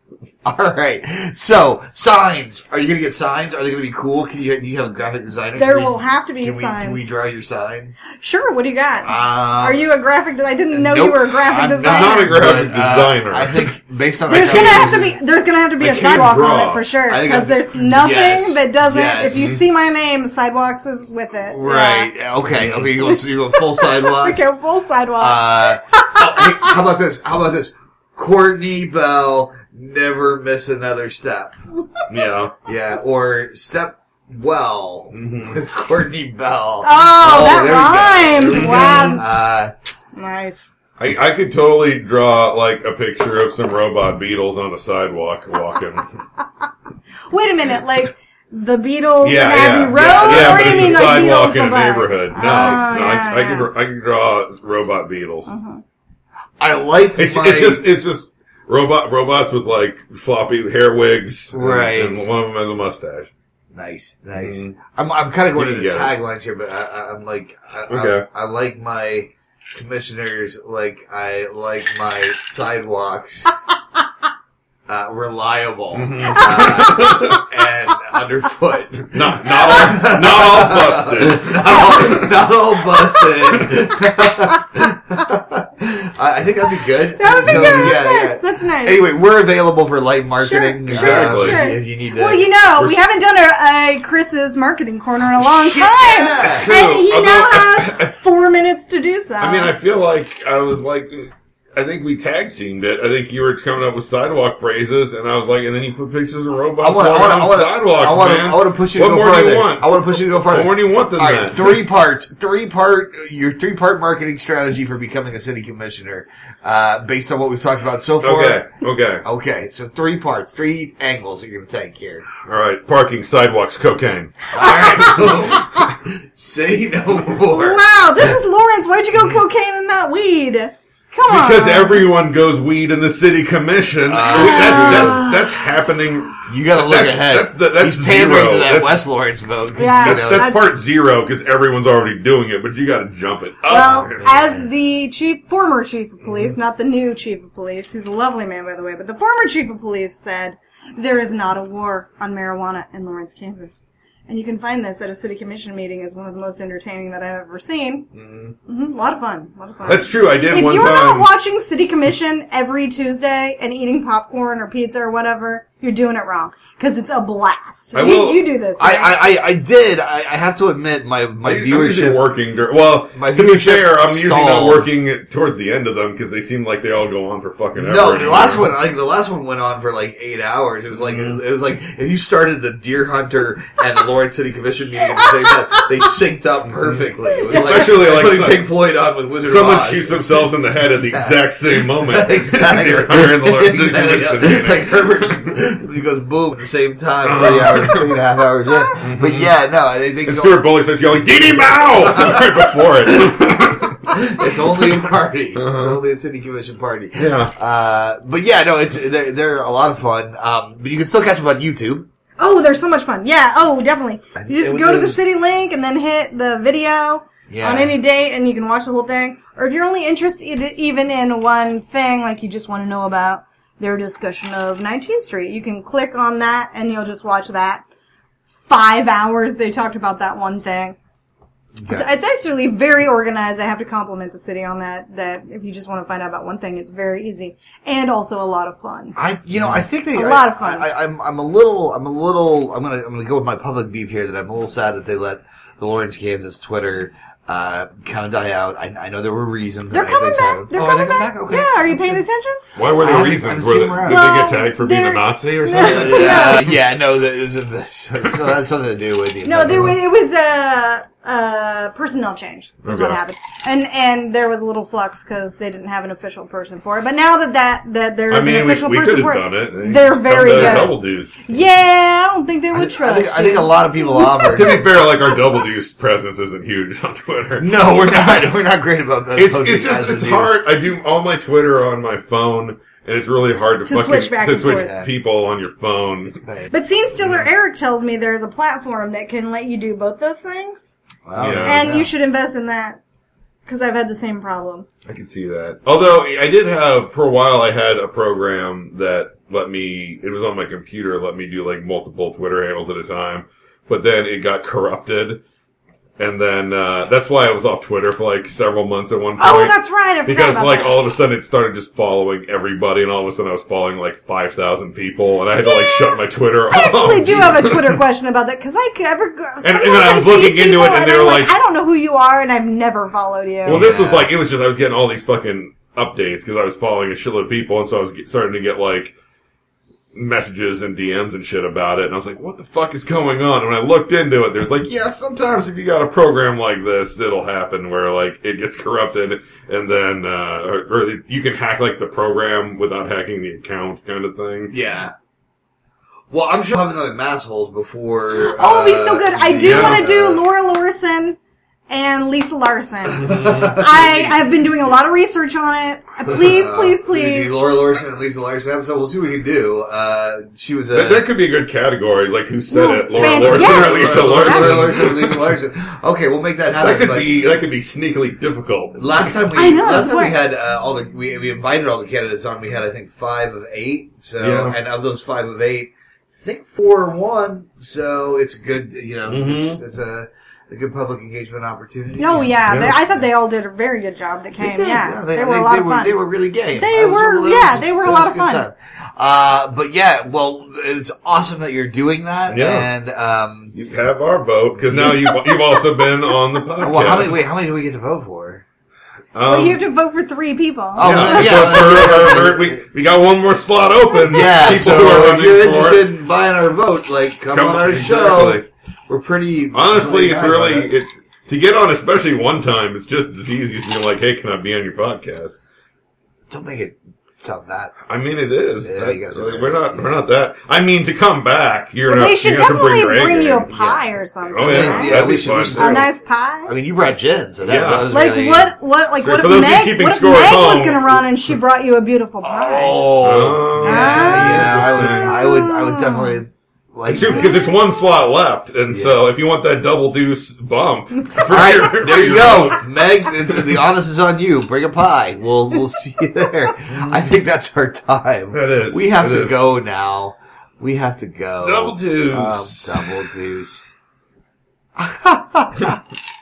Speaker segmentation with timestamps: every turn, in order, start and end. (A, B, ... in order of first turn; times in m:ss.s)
0:00.4-0:08.0 A
0:05.5-0:07.1 B
0:08.2-0:12.4 B
0:09.0-0:09.8 A
0:10.7-0:15.2 A
0:11.8-0:13.7 C
0:14.3-0:22.1 B
0:14.3-0:14.9 C
0:15.8-0:16.9 C
0:17.1-0:19.6 A
0:21.5-0:24.5 A
0:22.5-0:22.8 C
0:23.0-0:26.7 B
0:25.2-0:31.6 A
0:32.1-0:32.5 C
0:32.6-0:39.7 A
0:35.1-0:35.6 C
0:36.8-0:39.2 B
0:38.4-0:39.2 C
0:40.2-0:40.7 B
0:41.0-0:46.1 C
0:47.3-0:53.7 B
0:49.2-0:55.5 C
0:49.9-0:51.3 A
0:52.4-0:53.0 A
0:55.5-0:55.8 B
0:56.6-0:57.8 A
0:57.2-1:03.3 C
1:01.5-1:02.2 A
1:03.7-1:13.5 A
1:04.4-1:04.8 C
1:05.5-1:06.1 C
1:07.9-1:08.2 C
1:14.9-1:32.5 A
1:15.9-1:17.4 C
1:19.1-1:22.3 C
1:27.2-1:29.0 B
1:27.4-1:27.9 C
1:30.4-1:39.7 B
1:30.9-1:31.7 C
1:32.7-1:33.0 C
1:35.4-1:36.7 A
1:36.5-1:38.1 C
1:39.4-1:51.8 C
1:46.8-1:58.6 A
1:58.2-1:59.2 C
1:59.2-2:02.3 A
2:02.4-2:05.2 C
2:04.5-2:07.8 A
2:04.6-2:05.9 B
2:07.5-2:12.1 B
2:11.3-2:19.0 C
2:14.1-2:15.3 A
2:14.3-2:15.7 B
2:16.4-2:20.5 A
2:19.8-2:20.6 B
2:20.0-2:24.4 C
2:23.7-2:38.1 B
2:23.7-2:24.6 A
2:26.2-2:26.5 C
2:38.1-2:38.5 C
2:38.7-2:49.2 B
2:39.8-2:41.3 C
2:47.9-2:48.4 C
2:48.8-2:52.2 A
2:51.4-2:58.7 C
2:53.1-2:54.8 A
2:57.7-3:20.6 A
3:01.1-3:01.4 C
3:06.7-3:08.6 C
3:09.4-3:15.6 C
3:17.2-3:18.1 C
3:19.0-3:19.5 C
3:20.2-3:24.1 C
3:21.6-3:32.1 A
3:25.5-3:26.0 C
3:27.2-3:27.5 C
3:32.4-3:47.8 B
3:34.4-3:35.2 A
3:37.5-3:37.9 A
3:48.5-3:51.0 B
3:51.8-3:52.0 A
3:51.9-3:59.2 B
3:59.2-4:12.2 A
4:00.1-4:00.9 B
4:09.9-4:12.6 B
4:12.8-4:16.7 C
4:12.8-4:14.5 A
4:14.0-4:16.7 B
4:15.8-4:20.0 A
4:19.4-4:34.8 B
4:22.8-4:23.2 C
4:28.3-4:31.5 C
4:30.5-4:30.9 A
4:32.7-4:34.8 A
4:34.5-4:38.5 C
4:37.6-4:40.5 A
4:39.3-4:46.4 C
4:43.8-4:45.0 B
4:44.7-4:45.1 A
4:46.4-4:46.7 A
4:46.7-4:51.0 B
4:47.2-4:47.5 C
4:51.2-4:52.1 A
4:51.4-4:51.9 C
4:51.6-4:53.0 B
4:53.6-4:54.8 B
4:55.0-5:05.4 C
5:06.2-5:18.0 C
5:09.4-5:11.0 B
5:15.6-5:23.8 B
5:19.6-5:21.5 C
5:23.6-5:24.3 A
5:23.6-5:29.2 C
5:30.1-5:44.7 C
5:44.7-5:45.1 A
5:46.3-5:50.4 A
5:48.3-5:51.4 B
5:49.6-5:50.0 C
5:51.9-5:57.5 B
5:53.1-5:54.4 A
5:53.2-5:53.7 C
5:56.3-6:01.3 A
6:00.9-6:05.5 C
6:02.7-6:04.9 B
6:03.2-6:07.4 A
6:06.7-6:09.3 C
6:08.9-6:22.5 A
6:09.6-6:10.4 B
6:14.4-6:14.8 C
6:19.3-6:19.8 C
6:22.2-6:26.1 B
6:22.6-6:23.0 C
6:24.6-6:33.7 A
6:26.7-6:28.7 B
6:32.5-6:32.9 C
6:33.7-6:37.4 C
6:34.8-6:35.3 A
6:35.3-6:35.8 B
6:36.8-6:38.6 A
6:39.3-6:39.8 C
6:39.4-6:42.1 B
6:40.9-6:42.8 A
6:41.0-6:46.1 C
6:44.3-6:50.9 A
6:47.5-6:48.6 C
6:49.7-6:55.6 C
6:56.5-6:58.0 A
6:58.1-7:06.0 C
6:58.8-7:00.1 A
7:02.1-7:06.7 B
7:04.6-7:06.1 A
7:06.6-7:08.7 A
7:07.6-7:08.1 C
7:08.1-7:13.1 B
7:09.2-7:11.3 C
7:12.4-7:17.6 A
7:13.2-7:15.4 C
7:13.8-7:16.4 B
7:17.1-7:22.9 C
7:17.3-7:17.7 B
7:18.9-7:19.2 A
7:21.4-7:33.9 A
7:26.9-7:27.2 C
7:28.5-7:29.7 C
7:31.6-7:33.0 C
7:35.0-7:36.0 A